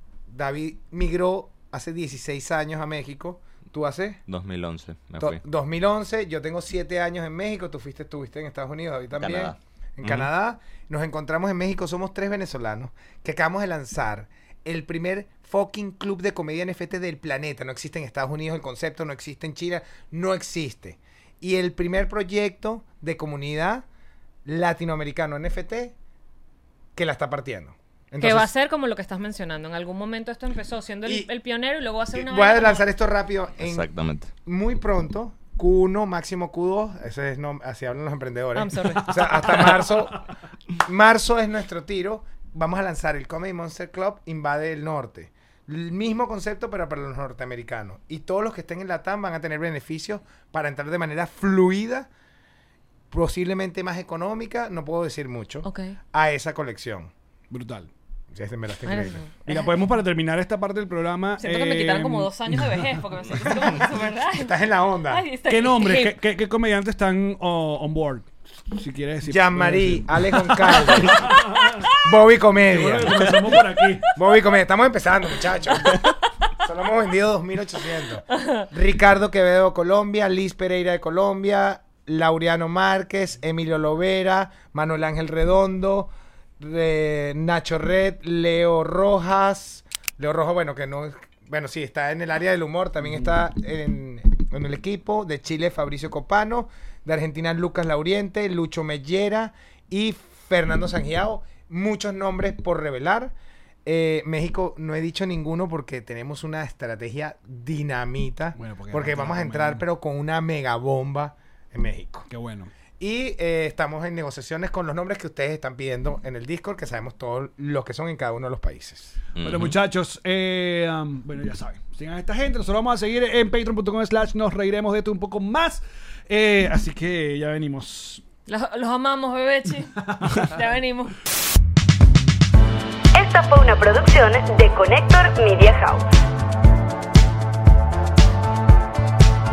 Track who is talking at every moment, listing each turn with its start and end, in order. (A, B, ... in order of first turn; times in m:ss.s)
0:00.3-0:04.2 A
0:04.3-0:05.4 B
0:05.2-0:23.9 A
0:09.2-0:10.3 B
0:24.4-0:26.0 A
0:27.0-0:28.5 A
0:28.2-0:32.9 C
0:32.1-0:33.9 A
0:33.6-0:34.3 B
0:34.5-0:40.2 A
0:38.6-0:39.7 C
0:40.8-0:52.1 A
0:53.1-0:57.1 A
0:55.6-0:56.0 C
0:57.5-0:57.9 D
0:58.3-0:59.3 A
0:58.9-0:59.9 C
0:59.4-1:03.0 D
1:01.4-1:04.6 C
1:04.3-1:05.3 A
1:05.1-1:06.2 C
1:05.5-1:11.9 D
1:09.2-1:11.4 A
1:12.0-1:13.6 A
1:12.7-1:14.1 D
1:14.2-1:16.0 A
1:16.6-1:43.3 A
1:43.8-1:52.3 A
1:48.6-1:49.8 D
1:52.3-1:52.7 D
1:53.0-1:59.2 A
1:59.4-1:59.8 B
1:59.4-2:08.2 D
2:08.5-2:11.2 C
2:10.0-2:10.5 D
2:13.1-2:16.0 E